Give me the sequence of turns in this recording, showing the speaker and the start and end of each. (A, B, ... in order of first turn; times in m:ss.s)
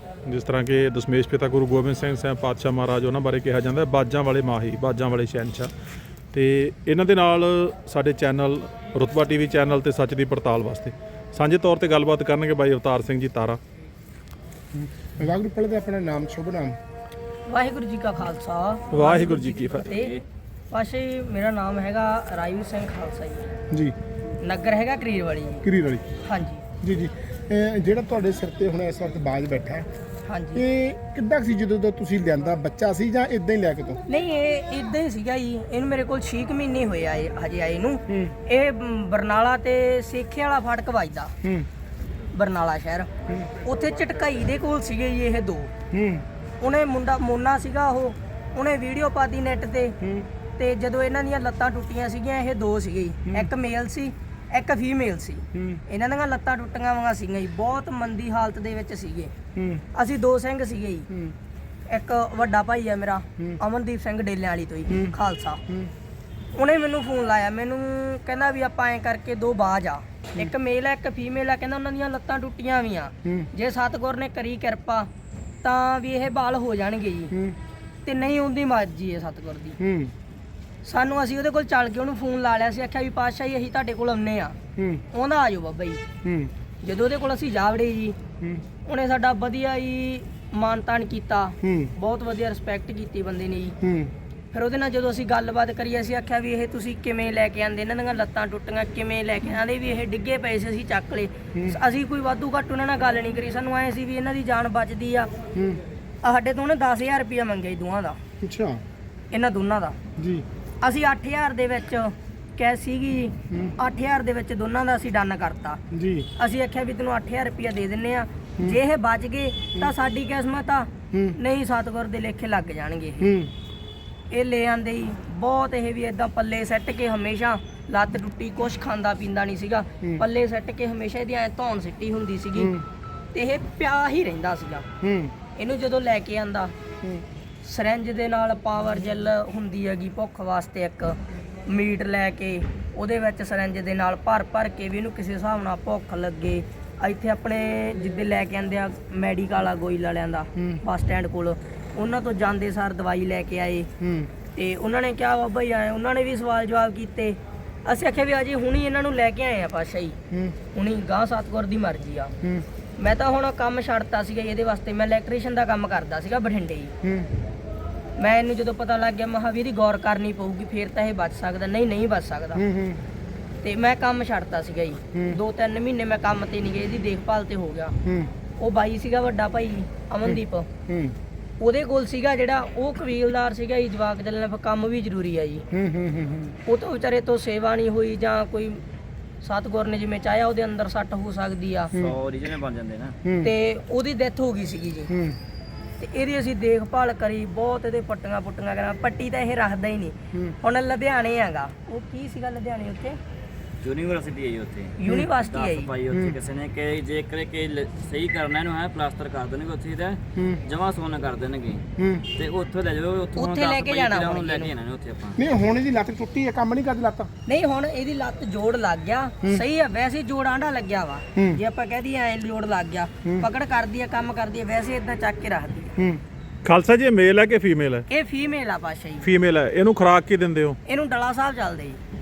0:00.3-0:05.7 A
0:06.3-0:13.6 A
0:14.7-0:16.8 B
0:17.5-0:20.2 C
0:18.9-0:19.9 A
0:19.9-0:20.2 D
0:20.7-0:23.5 C
0:24.4-0:25.6 C
0:25.6-0:26.1 B
0:26.2-0:26.6 C
0:26.8-0:29.9 B
0:30.2-0:30.6 C
0:30.5-0:34.0 B
0:34.1-0:41.3 C
0:38.1-0:38.3 B
0:41.4-0:41.7 B
0:42.3-0:43.1 C
0:43.6-0:45.7 C
0:45.9-0:46.2 B
0:46.6-0:49.9 C
0:50.0-0:50.3 B
0:50.6-0:59.3 C
0:53.2-0:53.5 B
0:55.5-0:55.8 B
0:59.5-0:59.8 B
0:59.9-1:01.1 C
1:01.9-1:05.6 C
1:04.9-1:05.1 B
1:06.5-1:15.1 C
1:15.6-1:17.3 C
1:17.3-1:17.6 B
1:18.0-1:19.8 C
1:19.8-1:20.1 B
1:20.8-1:24.6 C
1:24.8-1:25.0 B
1:25.1-1:26.0 C
1:26.2-1:26.5 B
1:26.8-1:28.2 C
1:28.4-1:28.6 B
1:28.8-1:33.7 C
1:31.6-1:31.9 B
1:33.8-1:34.1 B
1:34.5-1:45.3 C
1:45.5-1:45.8 B
1:46.2-1:48.2 C
1:48.4-1:48.8 B
1:49.3-1:50.0 C
1:50.2-1:50.4 B
1:50.8-1:55.8 C
1:55.9-1:56.3 B
1:56.4-2:03.3 C
2:01.1-2:01.4 B
2:03.2-2:03.5 B
2:04.3-2:12.7 C
2:12.6-2:12.8 B
2:13.3-2:14.8 C
2:15.0-2:15.3 B
2:15.6-2:16.7 C
2:17.6-2:33.9 C
2:34.0-2:34.3 B
2:34.5-2:40.2 C
2:40.3-2:40.6 B
2:40.7-2:42.3 C
2:43.0-2:46.9 C
2:47.0-2:47.3 B
2:48.2-2:52.6 C
2:52.5-2:53.0 B
2:53.6-2:58.0 C
2:55.1-2:55.4 B
2:58.0-2:58.3 B
2:58.6-3:00.7 C
3:00.3-3:01.1 B
3:01.6-3:05.6 C
3:05.7-3:06.5 B
3:06.6-3:08.8 C
3:09.4-3:11.9 C
3:12.0-3:13.1 D
3:13.2-3:13.5 B
3:13.4-3:15.1 C
3:15.1-3:15.4 B
3:16.0-3:23.2 C
3:23.8-3:31.8 D
3:25.0-3:25.9 C
3:26.1-3:26.4 B
3:30.4-3:30.6 B
3:32.0-3:32.3 B
3:32.3-3:35.4 D
3:33.4-3:34.7 C
3:35.4-3:37.3 B
3:37.5-3:45.9 C
3:41.3-3:41.6 B
3:46.6-3:48.0 A
3:48.1-3:49.3 C
3:49.2-3:50.8 A
3:50.8-3:52.0 C